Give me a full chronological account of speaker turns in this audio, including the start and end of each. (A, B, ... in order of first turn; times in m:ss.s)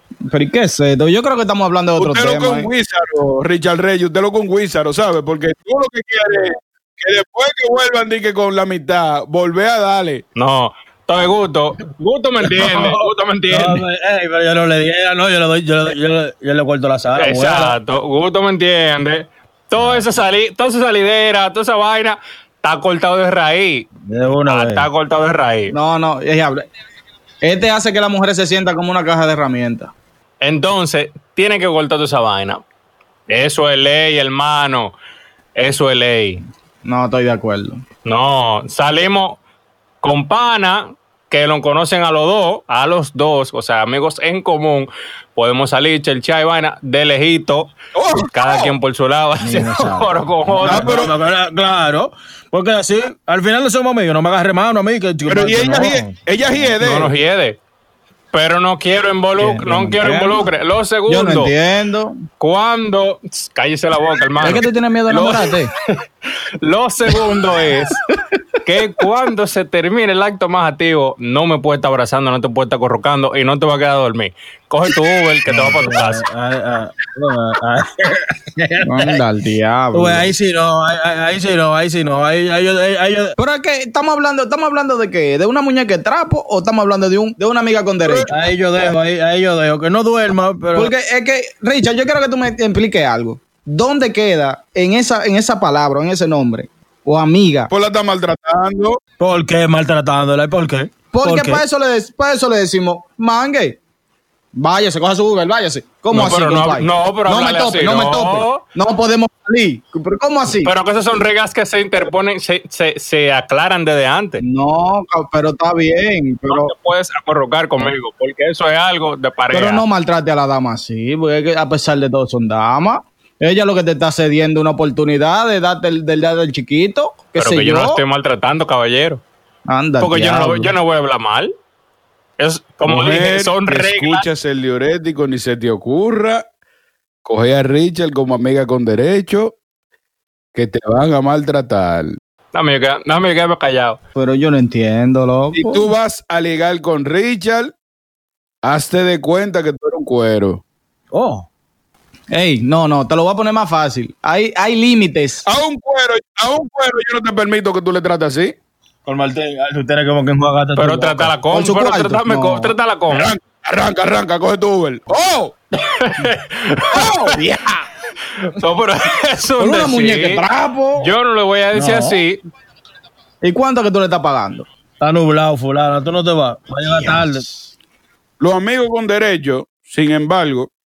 0:00.3-0:02.7 A
0:02.0-0:10.2 B
0:10.4-0:13.8 C
0:12.6-0:17.8 D
0:17.2-0:23.9 C
0:19.8-0:20.0 D
0:24.0-0:24.9 D
0:24.5-0:25.7 C
0:25.7-0:26.6 A
0:27.4-0:29.9 A
0:30.4-0:32.6 C
0:33.3-0:34.9 C
0:35.6-0:36.4 C
0:36.8-0:37.8 A
0:38.0-0:39.4 C
0:40.0-0:47.7 C
0:47.9-0:48.7 B
0:48.3-0:51.0 C
0:49.4-0:56.2 D
0:50.6-0:51.1 B
0:55.3-0:57.1 B
0:56.8-0:57.6 C
0:58.3-1:01.5 C
0:59.4-1:00.5 A
1:01.1-1:02.2 A
1:02.4-1:08.0 C
1:04.4-1:05.7 A
1:08.6-1:16.2 C
1:15.5-1:19.2 D
1:18.8-1:20.3 A
1:19.9-1:23.4 D
1:23.4-1:28.3 A
1:28.0-1:28.3 B
1:28.3-1:30.9 D
1:30.7-1:37.7 A
1:37.7-1:39.0 B
1:39.2-1:41.6 D
1:41.1-1:43.8 A
1:44.5-1:50.7 A
1:46.1-1:48.6 C
1:50.6-1:54.4 C
1:54.4-1:56.7 A
1:56.5-1:59.8 C
1:59.5-2:08.0 A
2:07.4-2:09.2 C
2:09.7-2:10.7 A
2:10.0-2:11.5 C
2:12.4-2:14.2 C
2:12.8-2:16.4 B
2:17.2-2:19.6 B
2:20.5-2:22.2 B
2:22.5-2:24.0 C
2:24.2-2:25.9 A
2:25.5-2:27.7 B
2:28.6-2:30.6 B
2:31.1-2:31.5 D
2:32.3-2:35.4 A
2:35.4-2:38.5 B
2:39.0-2:41.3 D
2:40.8-2:43.3 C
2:41.5-2:42.8 A
2:43.1-2:45.5 B
2:45.8-2:47.4 C
2:46.9-2:47.4 B
2:47.4-2:47.8 A
2:48.4-2:50.4 C
2:49.6-2:51.1 A
2:51.0-2:52.4 C
2:51.7-2:52.2 D
2:53.4-2:54.6 A
2:55.0-2:57.4 D
2:56.9-2:57.5 A
2:58.4-3:00.7 B